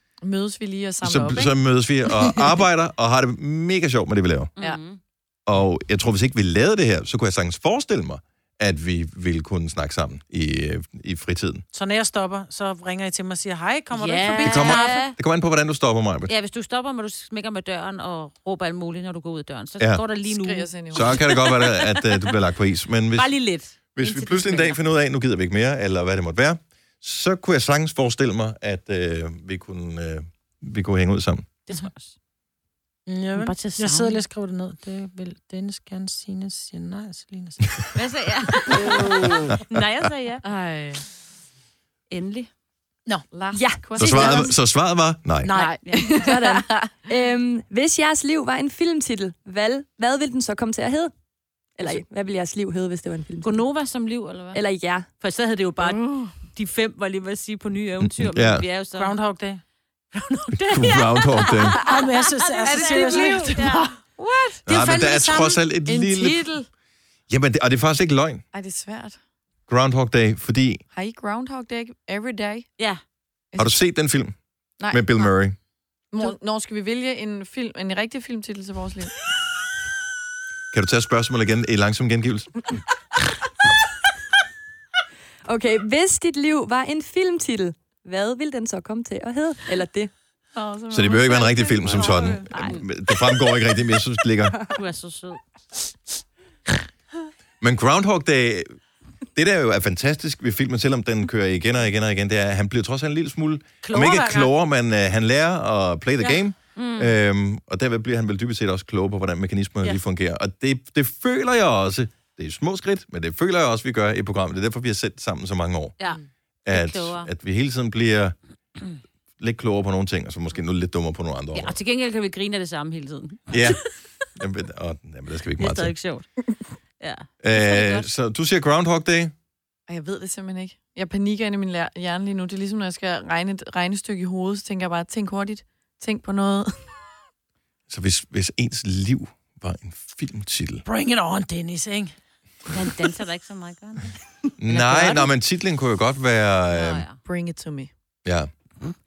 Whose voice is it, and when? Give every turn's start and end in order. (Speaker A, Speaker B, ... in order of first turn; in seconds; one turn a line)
Speaker A: 0.2-2.4
Speaker B: 1.0-4.5
Speaker C: 4.6-5.0
Speaker B: 5.5-11.7
Speaker D: 11.7-15.0
Speaker C: 13.9-15.2
Speaker B: 14.4-16.3
Speaker C: 16.3-22.3
Speaker A: 20.3-21.3
Speaker B: 20.9-23.3
Speaker C: 23.1-24.8
Speaker B: 23.9-31.5
Speaker C: 31.7-32.1
Speaker D: 33.1-37.9
Speaker C: 33.4-34.2
Speaker C: 38.0-39.1
Speaker D: 38.8-39.4
Speaker C: 39.7-40.4
Speaker A: 40.5-41.0
Speaker C: 42.1-42.5
Speaker A: 43.3-44.6
Speaker E: 43.5-44.5
Speaker B: 44.0-45.5
Speaker D: 45.4-45.8
Speaker A: 45.5-46.9
Speaker E: 46.2-51.1
Speaker E: 51.8-53.6
Speaker C: 53.4-54.6
Speaker E: 54.5-55.1
Speaker C: 55.2-59.1
Speaker A: 55.8-56.3
Speaker B: 58.0-58.6
Speaker D: 59.0-59.6
Speaker C: 60.1-63.9
Speaker B: 60.5-61.8
Speaker D: 61.7-63.9
Speaker A: 62.6-63.6
Speaker A: 64.2-64.6
Speaker D: 64.7-65.6
Speaker B: 64.7-66.5
Speaker A: 65.9-66.7
Speaker B: 67.3-68.4
Speaker A: 68.5-69.2
Speaker B: 69.7-70.8
Speaker A: 70.9-72.7
Speaker A: 73.5-73.8
Speaker B: 73.6-74.4
Speaker A: 74.8-75.3
Speaker B: 74.9-75.6
Speaker A: 76.1-79.2
Speaker B: 80.7-82.8
Speaker E: 85.5-90.1
Speaker A: 90.5-92.4
Speaker B: 90.9-94.6
Speaker C: 91.8-92.8
Speaker C: 94.7-95.4
Speaker B: 97.6-98.7
Speaker B: 99.3-116.0
Speaker D: 103.8-104.5
Speaker C: 106.8-107.1
Speaker C: 116.0-117.3
Speaker B: 116.7-118.4
Speaker B: 119.4-121.8
Speaker C: 121.5-123.9
Speaker B: 123.5-123.8
Speaker B: 124.4-126.0
Speaker C: 125.6-126.3
Speaker C: 127.0-128.1
Speaker B: 127.4-129.3
Speaker A: 129.9-137.0
Speaker B: 137.9-140.8
Speaker D: 140.9-142.1
Speaker C: 142.7-144.1
Speaker B: 144.6-147.1
Speaker C: 144.7-145.3
Speaker C: 146.7-147.2
Speaker A: 147.2-147.9